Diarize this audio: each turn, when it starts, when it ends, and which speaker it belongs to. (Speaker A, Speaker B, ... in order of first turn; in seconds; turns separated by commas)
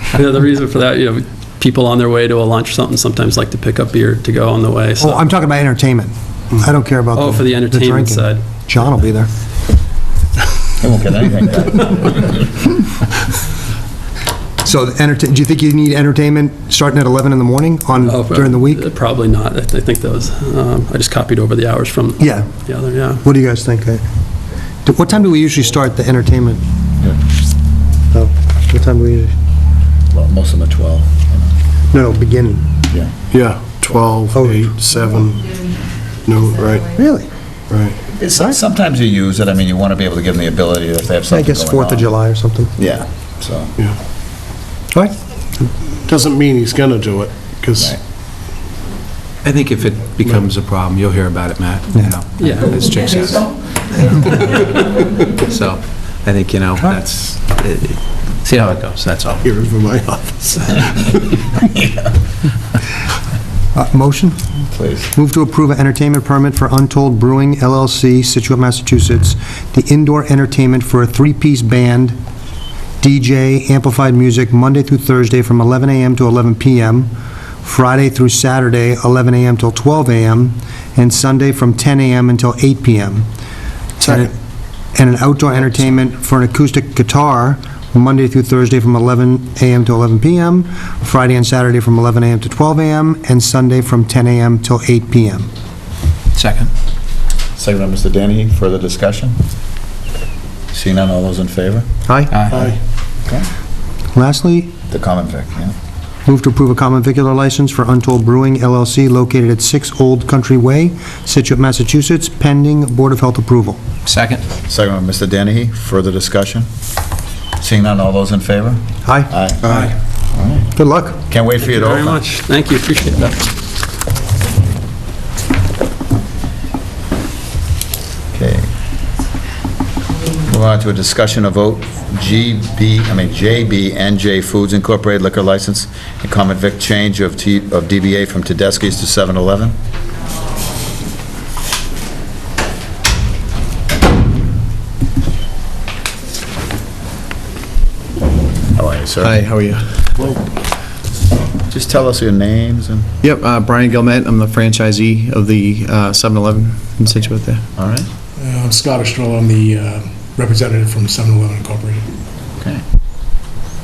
Speaker A: 0.1-5.3, Speaker B: 5.0-9.3, Speaker A: 7.1-8.5, Speaker C: 10.8-12.4, Speaker B: 14.6-18.9, Speaker A: 18.0-23.2, Speaker B: 22.2-22.5, Speaker B: 23.2-24.0, Speaker B: 24.9-26.6, Speaker B: 28.1-29.3, Speaker C: 30.1-31.5, Speaker B: 31.9-32.7, Speaker D: 33.3-35.5, Speaker B: 34.3-34.7, Speaker D: 36.2-36.9, Speaker B: 37.0-37.3, Speaker D: 37.7-38.0, Speaker C: 38.1-42.1, Speaker B: 41.3-42.7, Speaker C: 42.8-43.7, Speaker D: 46.1-48.0, Speaker E: 49.4-53.5, Speaker A: 52.4-53.0, Speaker E: 54.1-54.5, Speaker A: 54.1-54.7, Speaker E: 55.4-59.5, Speaker D: 59.4-61.2, Speaker B: 63.8-64.4, Speaker C: 64.7-65.1, Speaker B: 65.1-72.2, Speaker B: 73.0-77.1, Speaker B: 77.6-83.3, Speaker B: 84.0-84.3, Speaker B: 85.0-95.5, Speaker E: 96.3-96.7, Speaker C: 97.6-99.4, Speaker C: 100.7-101.9, Speaker B: 102.0-102.3, Speaker E: 102.3-102.6, Speaker D: 102.5-102.8, Speaker B: 104.2-104.7, Speaker C: 104.9-105.7, Speaker B: 106.3-113.8, Speaker E: 114.1-114.4, Speaker C: 114.6-116.7, Speaker C: 117.6-119.6, Speaker B: 119.0-119.4, Speaker D: 119.6-119.9, Speaker C: 120.3-120.7, Speaker B: 120.8-121.2, Speaker C: 121.3-122.2, Speaker A: 121.6-123.5, Speaker C: 128.3-128.7, Speaker C: 130.5-139.8, Speaker C: 148.8-149.4, Speaker F: 149.2-150.4, Speaker C: 151.7-153.1, Speaker F: 153.2-157.6, Speaker C: 157.8-158.1, Speaker G: 158.4-162.1